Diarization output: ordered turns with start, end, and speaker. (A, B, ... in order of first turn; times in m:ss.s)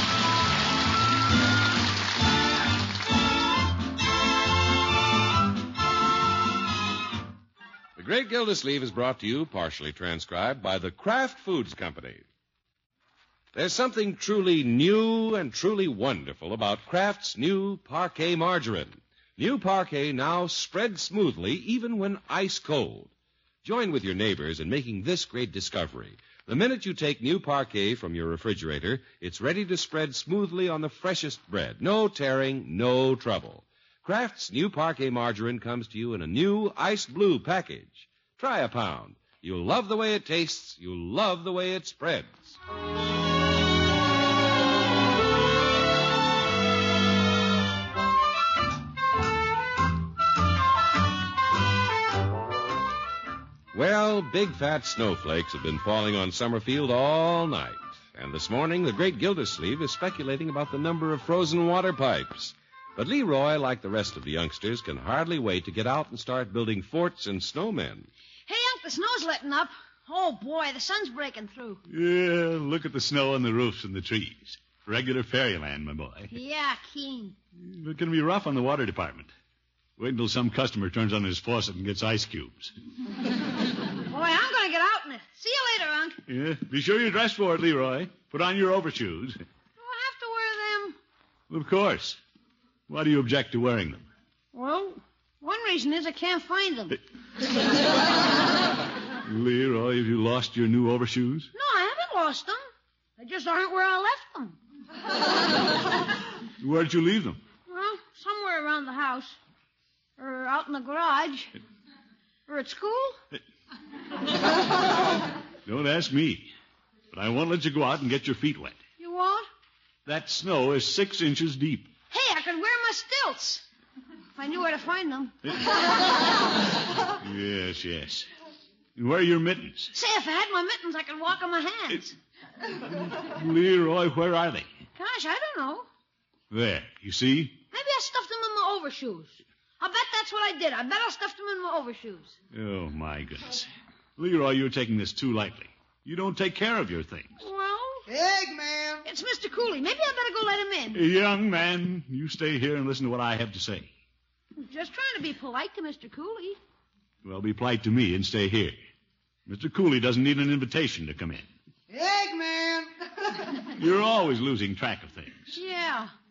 0:08.0-0:12.2 A
0:13.5-0:23.1 A
0:23.6-0:42.6 A
0:53.7-1:08.1 A
1:08.5-1:11.8 B
1:11.9-1:16.3 C
1:16.3-1:17.4 B
1:17.6-1:19.3 C
1:20.0-1:22.7 C
1:24.1-1:26.2 B
1:26.3-1:29.4 C
1:29.8-1:31.0 B
1:31.5-1:32.2 C
1:32.9-1:34.1 C
1:34.5-1:37.0 B
1:39.2-1:41.5 C
1:41.5-1:42.6 B
1:43.2-1:44.6 B
1:46.6-1:47.4 C
1:47.7-1:49.4 B
1:50.2-1:51.5 B
1:52.5-1:53.2 B
1:55.7-1:56.5 C
1:57.1-1:58.8 C
1:59.0-1:59.5 B
2:00.1-2:01.9 C
2:02.1-2:03.6 B
2:04.4-2:05.6 B
2:07.2-2:08.3 C
2:09.0-2:09.9 C
2:09.9-2:12.2 B
2:13.0-2:14.8 C
2:15.0-2:15.9 B
2:16.5-2:17.6 C
2:17.7-2:22.4 B
2:22.5-2:27.4 C
2:27.4-2:28.1 B
2:28.1-2:29.1 D
2:29.0-2:31.0 B
2:30.9-2:33.9 C
2:34.6-2:36.6 B
2:37.2-2:38.8 C
2:39.5-2:41.5 C
2:41.9-2:43.5 D
2:43.8-2:45.6 C
2:45.5-2:46.1 B